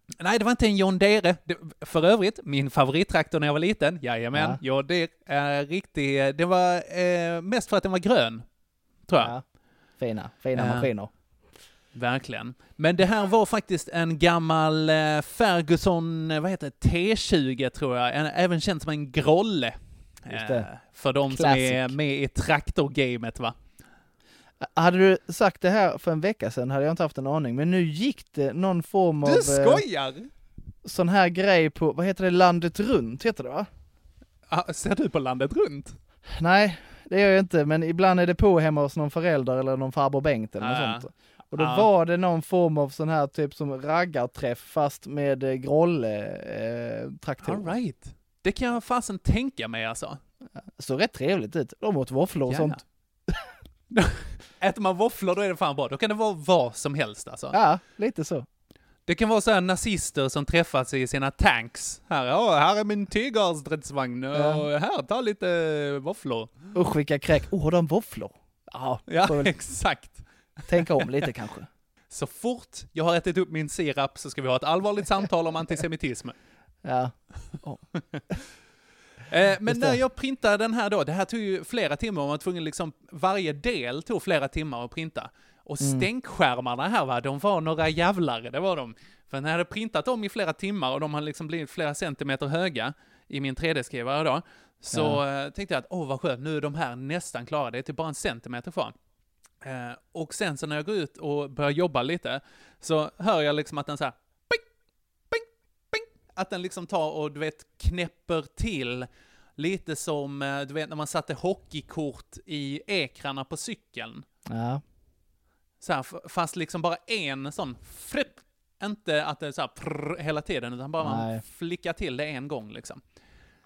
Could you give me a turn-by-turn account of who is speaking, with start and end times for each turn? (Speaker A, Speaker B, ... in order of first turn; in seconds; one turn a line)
Speaker A: 0.2-8.4
Speaker B: 4.3-4.6
Speaker A: 9.1-9.3
Speaker B: 9.2-9.4
Speaker B: 10.0-11.1
Speaker A: 10.5-10.9
Speaker A: 11.9-23.6
Speaker B: 20.3-20.7
Speaker B: 21.3-21.9
Speaker B: 24.6-29.8
Speaker A: 29.2-30.3
Speaker B: 30.8-33.7
Speaker A: 34.5-36.0
Speaker B: 36.3-47.7
Speaker A: 40.6-41.9
Speaker A: 47.4-50.2
Speaker B: 50.8-53.5
Speaker A: 52.5-52.8
Speaker A: 53.9-57.6
Speaker B: 57.5-58.5
Speaker A: 59.1-66.7
Speaker B: 64.3-64.6
Speaker B: 66.7-69.5
Speaker A: 69.1-71.2
Speaker B: 70.7-71.7
Speaker A: 72.1-76.3
Speaker B: 76.8-77.8
Speaker A: 79.3-98.9
Speaker B: 79.7-80.0
Speaker B: 85.8-86.1
Speaker B: 94.9-95.2
Speaker A: 99.6-104.6
Speaker A: 105.3-114.2
Speaker B: 114.5-114.8
Speaker A: 115.8-123.0
Speaker B: 121.0-121.4